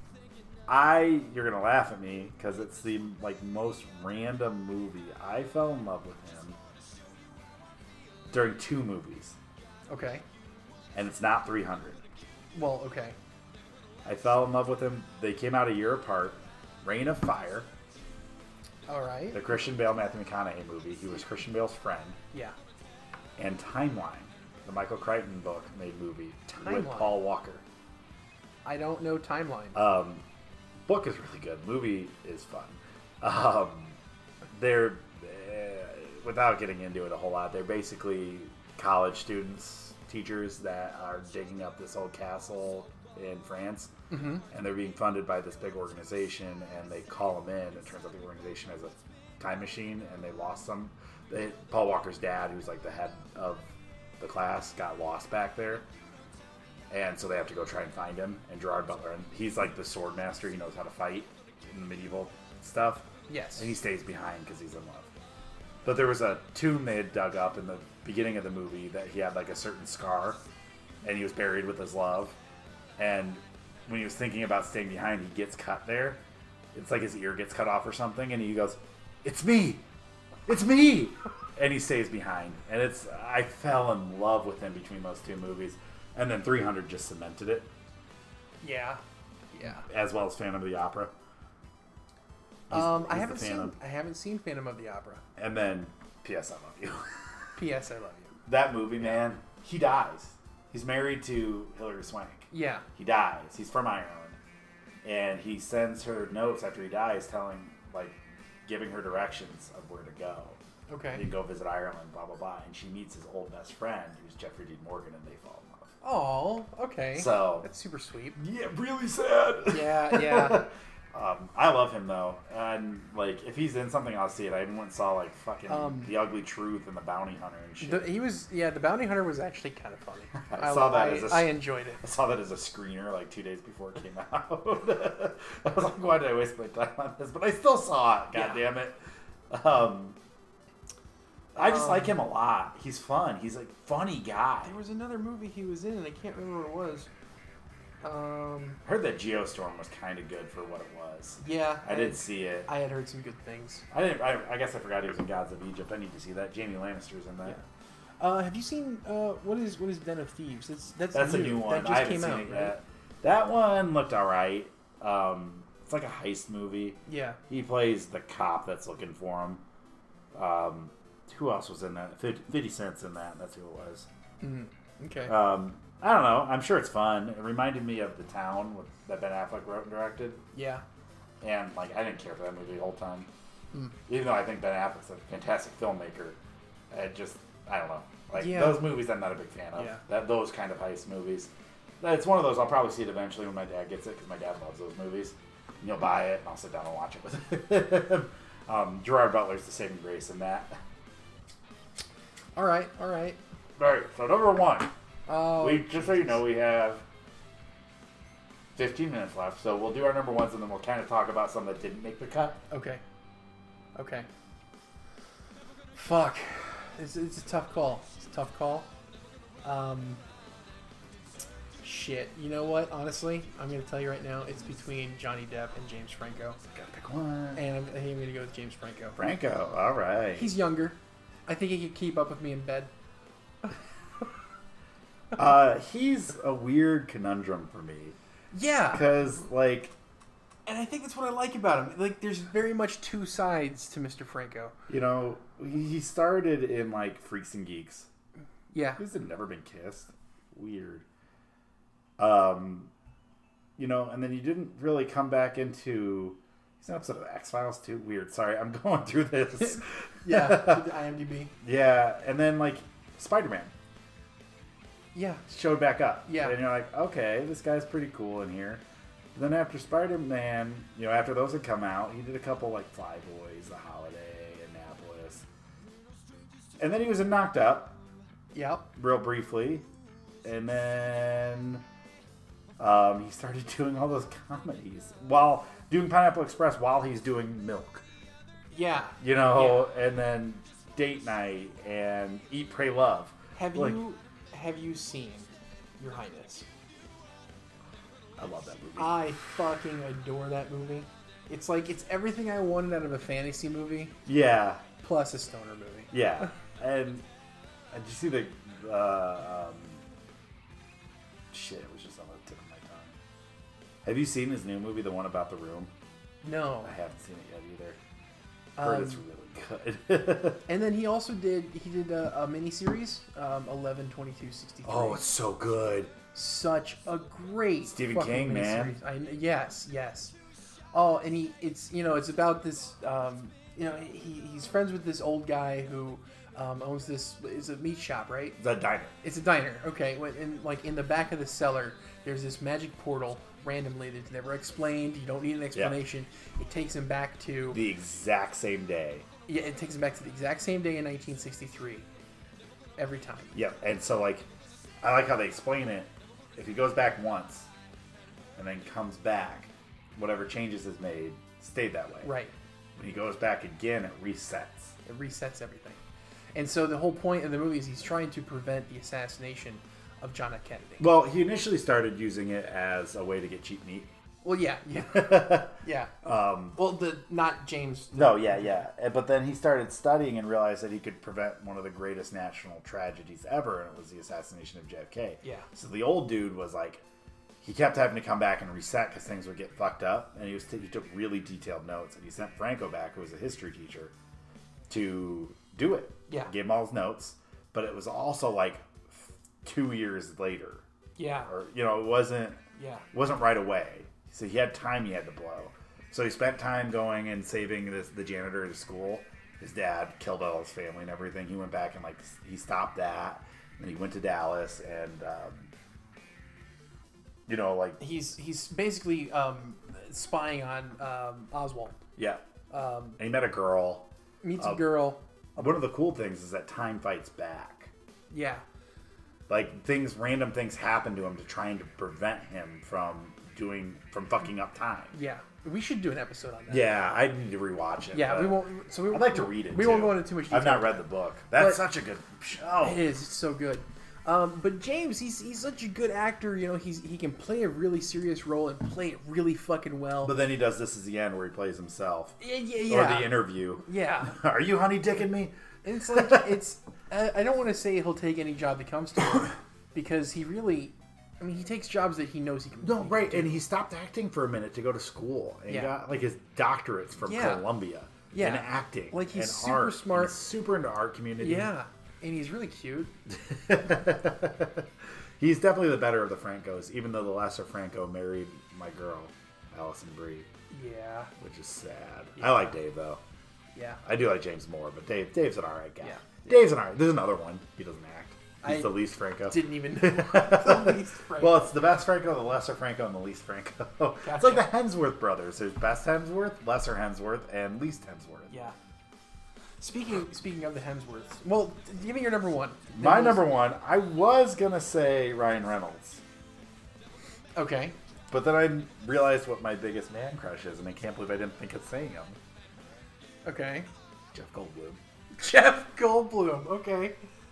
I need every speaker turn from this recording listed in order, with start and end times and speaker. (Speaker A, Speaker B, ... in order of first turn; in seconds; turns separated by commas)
Speaker A: 0.7-6.6, Speaker A: 8.3-9.3, Speaker B: 9.9-10.2, Speaker A: 10.9-12.0, Speaker B: 12.5-13.2, Speaker A: 14.0-17.7, Speaker B: 18.9-19.4, Speaker A: 19.3-22.2, Speaker A: 23.4-27.6, Speaker B: 26.6-27.2, Speaker B: 28.6-29.8, Speaker A: 29.7-30.2, Speaker A: 30.9-34.0, Speaker A: 34.5-55.9, Speaker B: 44.1-44.4, Speaker A: 56.9-65.1, Speaker B: 63.3-63.7, Speaker A: 65.8-70.4, Speaker A: 71.0-72.3, Speaker A: 73.0-76.2, Speaker A: 76.7-79.8, Speaker A: 80.5-87.7, Speaker B: 88.6-89.0, Speaker B: 89.5-89.8, Speaker A: 89.8-91.1, Speaker A: 92.7-93.7, Speaker B: 92.7-95.2, Speaker A: 95.4-97.2, Speaker B: 97.5-98.3, Speaker A: 98.5-104.4, Speaker B: 102.5-102.8, Speaker A: 105.0-110.6, Speaker B: 110.9-111.3, Speaker A: 111.1-115.9, Speaker B: 116.0-118.4, Speaker A: 117.1-117.7, Speaker A: 118.3-128.1, Speaker B: 119.7-120.7, Speaker B: 125.7-126.1, Speaker B: 127.8-132.0, Speaker A: 130.4-139.0, Speaker B: 138.3-138.6, Speaker A: 139.5-140.2, Speaker A: 141.5-144.8, Speaker B: 141.6-142.1, Speaker B: 144.6-147.1, Speaker B: 148.0-148.8, Speaker A: 148.8-152.7, Speaker B: 151.4-153.8, Speaker A: 153.9-157.6, Speaker B: 158.2-162.7, Speaker A: 161.1-169.6, Speaker B: 167.1-167.4, Speaker A: 170.3-174.1, Speaker B: 174.4-175.3, Speaker A: 175.2-180.4, Speaker B: 180.5-180.8, Speaker A: 181.4-183.3, Speaker A: 184.1-186.4, Speaker A: 186.9-200.8, Speaker B: 188.3-188.9, Speaker B: 189.8-190.0, Speaker B: 202.6-203.4, Speaker A: 203.8-204.9, Speaker B: 205.3-206.4, Speaker A: 205.6-207.0, Speaker A: 208.8-212.6, Speaker B: 212.7-213.0, Speaker B: 213.9-214.3, Speaker B: 215.9-218.9, Speaker B: 219.6-220.2, Speaker B: 221.8-226.6, Speaker A: 226.7-227.6, Speaker B: 227.5-229.2, Speaker A: 229.2-230.5, Speaker B: 230.3-232.9, Speaker A: 235.3-238.2, Speaker B: 238.5-239.1, Speaker A: 238.9-239.9, Speaker B: 240.7-244.7, Speaker A: 244.9-248.1, Speaker B: 248.7-249.0, Speaker A: 249.0-251.0, Speaker A: 252.2-252.9, Speaker A: 253.8-260.9, Speaker B: 260.2-261.5, Speaker A: 261.6-263.7, Speaker B: 265.1-265.4, Speaker A: 265.5-268.8, Speaker B: 266.2-266.6, Speaker A: 269.3-275.4, Speaker A: 276.8-278.0, Speaker B: 278.5-278.9, Speaker A: 278.9-279.8, Speaker A: 280.4-281.8, Speaker A: 282.8-288.0, Speaker B: 288.7-289.9, Speaker A: 289.2-294.0, Speaker B: 293.6-296.6, Speaker A: 298.4-299.3, Speaker B: 299.0-304.2, Speaker A: 304.2-304.8, Speaker B: 305.0-306.1, Speaker A: 306.1-307.2, Speaker A: 307.9-310.0, Speaker A: 311.5-313.1, Speaker A: 314.0-315.9, Speaker B: 316.4-316.9, Speaker A: 316.8-318.0, Speaker B: 318.8-319.2, Speaker A: 318.8-320.6, Speaker B: 320.6-325.2, Speaker A: 324.8-326.1, Speaker B: 326.3-330.3, Speaker A: 327.8-329.0, Speaker B: 330.9-338.6, Speaker A: 338.6-339.1, Speaker B: 339.2-347.8, Speaker A: 345.7-346.0, Speaker A: 347.7-349.3, Speaker B: 349.5-352.1, Speaker B: 353.0-353.5, Speaker A: 353.5-354.5, Speaker A: 355.0-357.7, Speaker A: 358.6-362.3, Speaker B: 362.2-362.5, Speaker A: 362.9-364.9, Speaker B: 365.0-366.0, Speaker B: 366.5-371.1, Speaker A: 371.0-374.1, Speaker B: 374.4-376.2, Speaker A: 375.0-376.8, Speaker B: 376.7-378.9, Speaker A: 378.1-387.0, Speaker A: 387.6-394.1, Speaker A: 394.9-400.8, Speaker B: 401.2-401.5, Speaker A: 401.4-402.6, Speaker B: 402.8-403.0, Speaker A: 403.1-415.7, Speaker A: 417.5-418.0, Speaker B: 418.0-422.0, Speaker A: 422.2-422.4, Speaker B: 422.7-423.2, Speaker A: 423.2-424.9, Speaker B: 424.4-425.2, Speaker A: 425.6-427.9, Speaker B: 428.3-428.6, Speaker A: 429.5-435.1, Speaker B: 435.1-436.9, Speaker A: 436.7-443.0, Speaker B: 438.1-441.0, Speaker B: 441.5-441.8, Speaker B: 442.8-450.4, Speaker A: 450.2-455.5, Speaker B: 452.4-454.4, Speaker B: 455.8-463.5, Speaker A: 456.1-456.6, Speaker A: 462.8-471.7, Speaker B: 465.7-465.9, Speaker B: 467.2-467.7, Speaker B: 468.3-470.4, Speaker B: 471.4-473.1, Speaker A: 473.3-480.5, Speaker B: 480.7-481.3, Speaker A: 481.4-483.2, Speaker B: 483.7-484.0, Speaker A: 484.0-498.6, Speaker B: 486.0-486.6, Speaker B: 488.6-488.9, Speaker B: 489.4-491.7, Speaker B: 494.2-494.7, Speaker B: 498.5-498.7, Speaker B: 499.8-503.4, Speaker A: 502.9-506.2, Speaker B: 507.6-507.9, Speaker A: 508.3-512.4, Speaker B: 513.4-513.9, Speaker A: 514.3-515.0, Speaker B: 515.4-517.2